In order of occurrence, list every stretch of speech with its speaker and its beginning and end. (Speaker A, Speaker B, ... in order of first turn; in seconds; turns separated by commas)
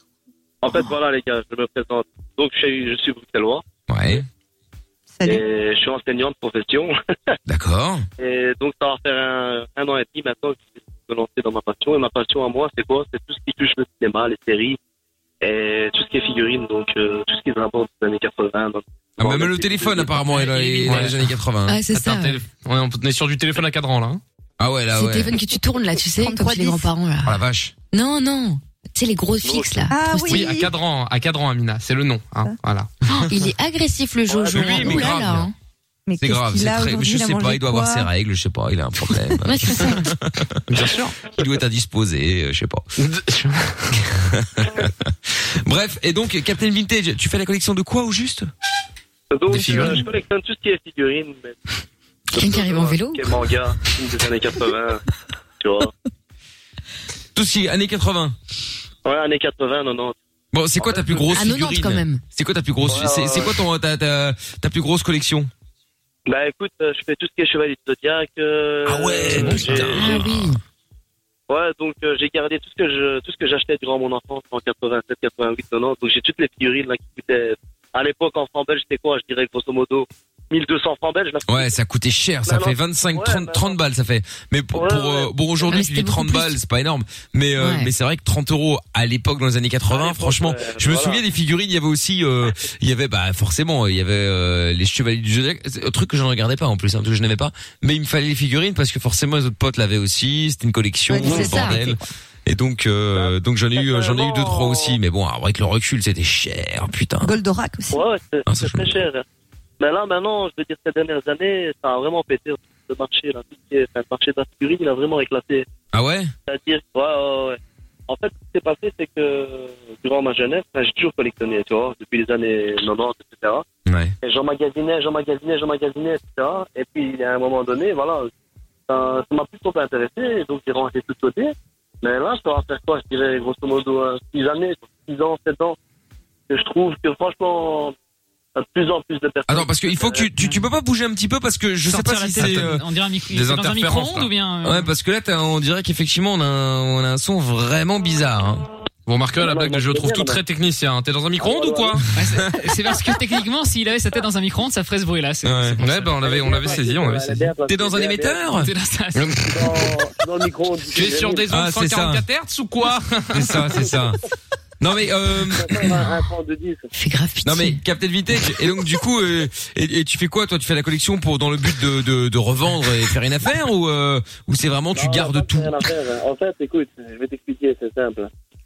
Speaker A: 0.6-3.6, Speaker B: 3.9-4.2, Speaker C: 5.2-5.5, Speaker A: 5.2-7.0, Speaker B: 7.5-8.1, Speaker A: 8.2-14.8, Speaker A: 15.4-20.3, Speaker B: 19.2-21.8, Speaker D: 20.8-21.3, Speaker E: 21.7-22.4, Speaker D: 21.9-24.2, Speaker B: 24.6-25.4, Speaker E: 24.9-27.4, Speaker C: 26.1-26.9, Speaker B: 27.3-27.7, Speaker E: 27.9-30.6, Speaker A: 29.4-29.8, Speaker C: 29.9-30.7, Speaker D: 30.3-32.9, Speaker E: 33.1-35.5, Speaker A: 34.3-34.8, Speaker B: 34.6-35.1, Speaker D: 34.6-35.5, Speaker C: 36.1-38.1, Speaker B: 36.2-40.6, Speaker C: 39.1-40.0, Speaker E: 39.4-40.1, Speaker D: 40.7-41.2, Speaker B: 41.3-42.9, Speaker D: 43.0-44.3, Speaker B: 44.3-48.5, Speaker A: 49.3-51.6, Speaker D: 49.5-50.1, Speaker E: 52.3-53.4, Speaker A: 52.3-55.0, Speaker A: 55.6-55.9, Speaker B: 57.4-58.4, Speaker A: 59.0-60.1, Speaker B: 60.5-65.5, Speaker A: 60.8-61.2, Speaker E: 61.3-62.2, Speaker A: 62.9-63.5, Speaker A: 66.3-70.2, Speaker B: 68.8-70.6, Speaker E: 69.4-70.6, Speaker A: 71.5-81.7, Speaker B: 81.5-107.3, Speaker A: 82.5-83.8, Speaker A: 84.8-85.3, Speaker E: 85.7-86.6, Speaker E: 87.6-87.9, Speaker A: 89.9-91.2, Speaker C: 101.1-102.0, Speaker E: 101.2-101.8, Speaker A: 103.1-105.0, Speaker C: 107.2-108.0, Speaker A: 107.9-109.2, Speaker B: 108.5-109.0, Speaker A: 109.8-115.7, Speaker B: 115.9-116.3, Speaker A: 116.5-123.7, Speaker B: 123.9-124.2, Speaker A: 124.2-128.3, Speaker A: 128.9-135.8, Speaker A: 136.5-137.9, Speaker A: 138.6-140.3, Speaker B: 139.5-142.8, Speaker F: 141.9-144.9, Speaker D: 142.4-144.3, Speaker B: 144.6-148.6, Speaker D: 149.1-152.5, Speaker A: 149.4-150.4, Speaker A: 151.4-152.0, Speaker F: 152.2-156.8, Speaker B: 155.4-155.8, Speaker D: 155.8-157.6, Speaker A: 156.1-158.5, Speaker B: 157.7-159.7, Speaker F: 158.5-159.4, Speaker A: 159.5-161.5, Speaker D: 160.9-163.9, Speaker B: 161.5-162.2, Speaker B: 163.3-164.2, Speaker B: 164.8-166.0, Speaker A: 165.5-166.9, Speaker E: 166.9-167.8, Speaker B: 167.4-175.8, Speaker A: 174.9-178.3